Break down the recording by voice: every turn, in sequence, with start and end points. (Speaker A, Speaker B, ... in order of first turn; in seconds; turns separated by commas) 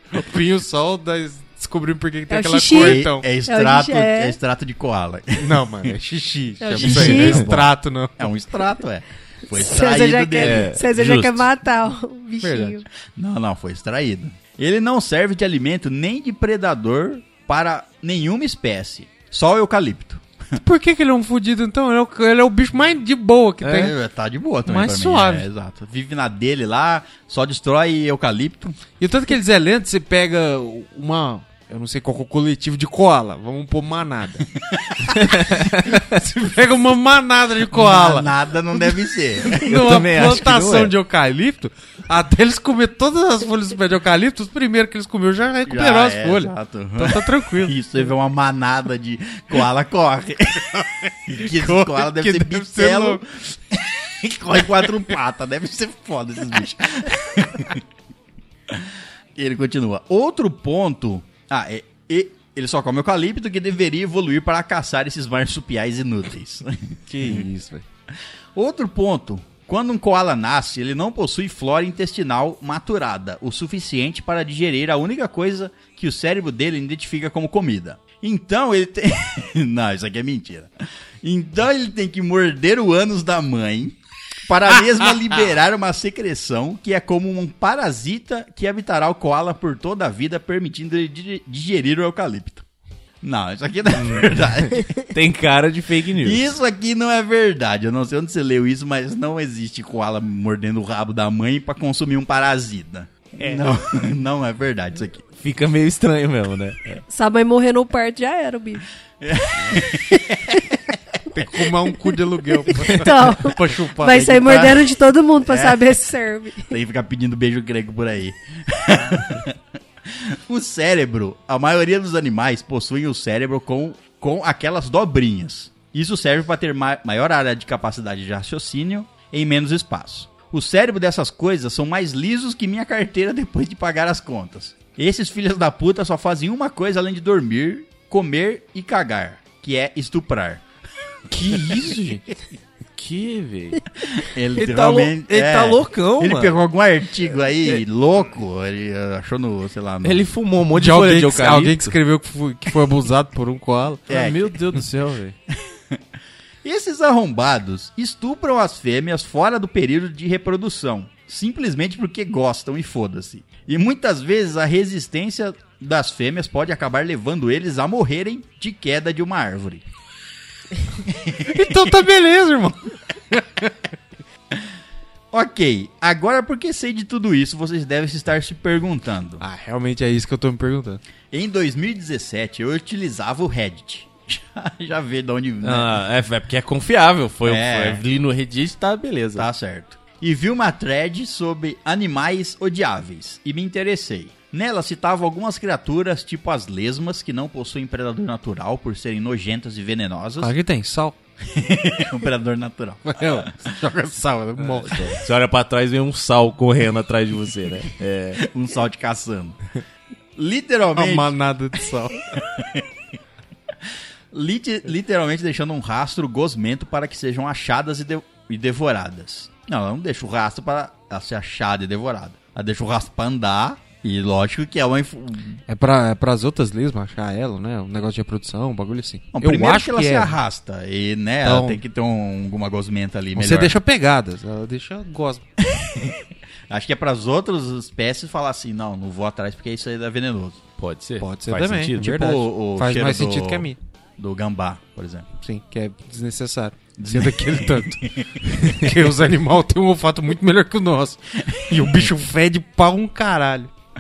Speaker A: 0.1-3.3, Speaker B: 2.3-4.4, Speaker C: 2.7-5.9, Speaker A: 5.4-8.2, Speaker B: 6.6-7.5, Speaker C: 6.7-10.7, Speaker B: 9.5-12.8, Speaker D: 10.4-11.5, Speaker A: 12.4-12.8, Speaker C: 13.1-20.2, Speaker A: 20.6-23.9, Speaker D: 23.6-23.9, Speaker C: 23.7-28.8, Speaker A: 24.6-25.5, Speaker A: 29.0-34.5, Speaker C: 34.6-35.1, Speaker D: 35.3-35.8, Speaker A: 35.8-38.3, Speaker C: 37.7-39.7, Speaker A: 39.5-47.8, Speaker D: 39.6-40.9, Speaker C: 45.6-57.8, Speaker A: 51.3-53.2, Speaker C: 58.7-67.5, Speaker A: 67.1-67.8, Speaker C: 68.5-92.6, Speaker C: 93.2-94.8, Speaker D: 95.1-96.5, Speaker C: 96.2-105.2, Speaker D: 105.4-107.0, Speaker B: 107.1-108.8, Speaker C: 109.2-110.6, Speaker A: 111.3-114.7, Speaker B: 112.9-116.7, Speaker C: 114.1-114.9, Speaker C: 115.4-116.0, Speaker C: 116.7-140.6, Speaker A: 141.3-142.2, Speaker D: 142.9-143.8, Speaker C: 144.0-150.3, Speaker D: 144.5-146.6, Speaker D: 150.0-151.9, Speaker A: 150.7-154.0, Speaker C: 154.1-154.5, Speaker D: 154.1-155.4, Speaker C: 155.5-156.0, Speaker C: 156.6-169.8, Speaker C: 171.1-171.7, Speaker A: 171.5-173.7, Speaker C: 175.3-179.4, Speaker A: 179.4-181.0, Speaker C: 181.3-185.9, Speaker D: 185.6-189.5, Speaker C: 187.4-188.0, Speaker C: 189.3-200.5, Speaker A: 200.4-201.1, Speaker C: 201.5-203.5, Speaker A: 203.1-205.1, Speaker D: 204.7-208.4, Speaker C: 208.4-209.6, Speaker C: 210.3-211.3, Speaker A: 210.9-212.2, Speaker C: 212.3-212.8, Speaker C: 214.3-225.6, Speaker A: 225.7-230.3, Speaker C: 229.3-233.7, Speaker A: 231.4-231.8, Speaker A: 233.3-235.4, Speaker C: 235.6-240.6, Speaker D: 240.8-242.2, Speaker A: 241.2-243.8, Speaker C: 242.0-245.3, Speaker A: 245.4-253.7, Speaker C: 247.0-248.9, Speaker C: 251.5-252.1